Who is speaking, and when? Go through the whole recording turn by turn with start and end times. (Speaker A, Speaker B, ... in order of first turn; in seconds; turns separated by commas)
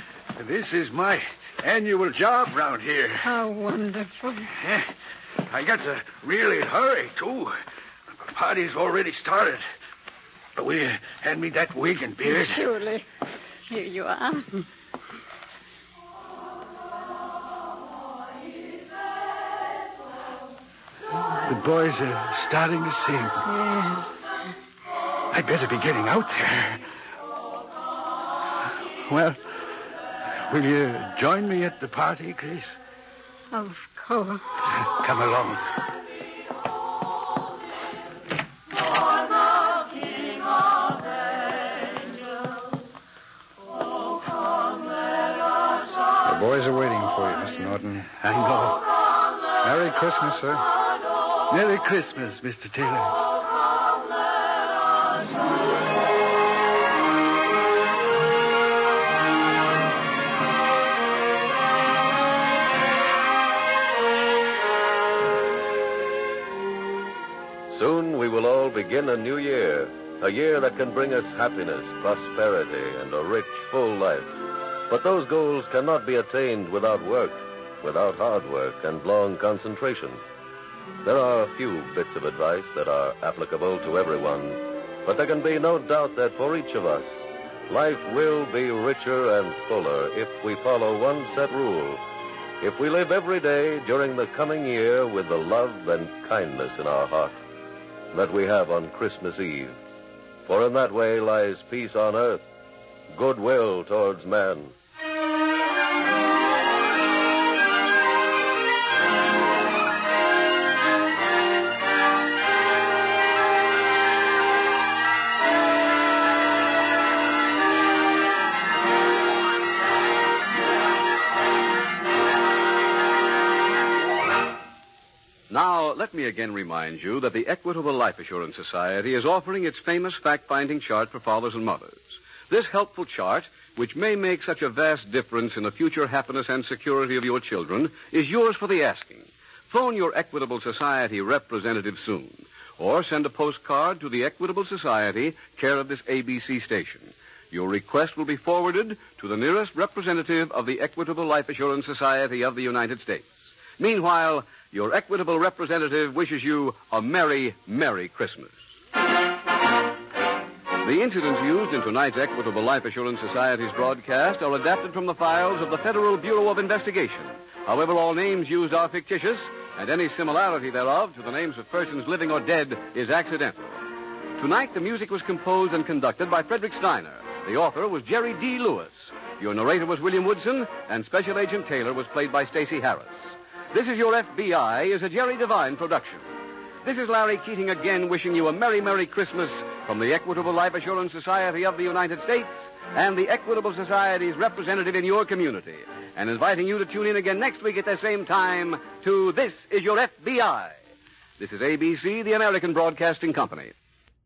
Speaker A: 0.3-3.3, Speaker B: 3.2-4.5, Speaker A: 4.5-4.9, Speaker A: 5.5-7.5, Speaker A: 8.2-9.6, Speaker A: 10.6-12.7, Speaker B: 12.2-13.1, Speaker B: 13.7-14.7, Speaker A: 21.2-23.4, Speaker B: 23.4-24.3, Speaker A: 25.3-26.8, Speaker A: 29.1-29.4, Speaker A: 30.5-32.7, Speaker B: 33.5-34.4, Speaker A: 34.9-35.6, Speaker C: 46.2-48.1, Speaker A: 48.2-48.8, Speaker C: 49.6-50.6, Speaker A: 51.5-53.2, Speaker D: 67.7-74.3, Speaker D: 74.9-80.2, Speaker D: 81.0-92.0, Speaker D: 92.6-97.3, Speaker D: 98.1-99.8, Speaker D: 100.5-102.4, Speaker D: 103.1-104.7, Speaker E: 125.5-158.6, Speaker E: 160.8-173.8, Speaker E: 174.4-186.2, Speaker E: 186.8-200.8, Speaker E: 201.4-203.7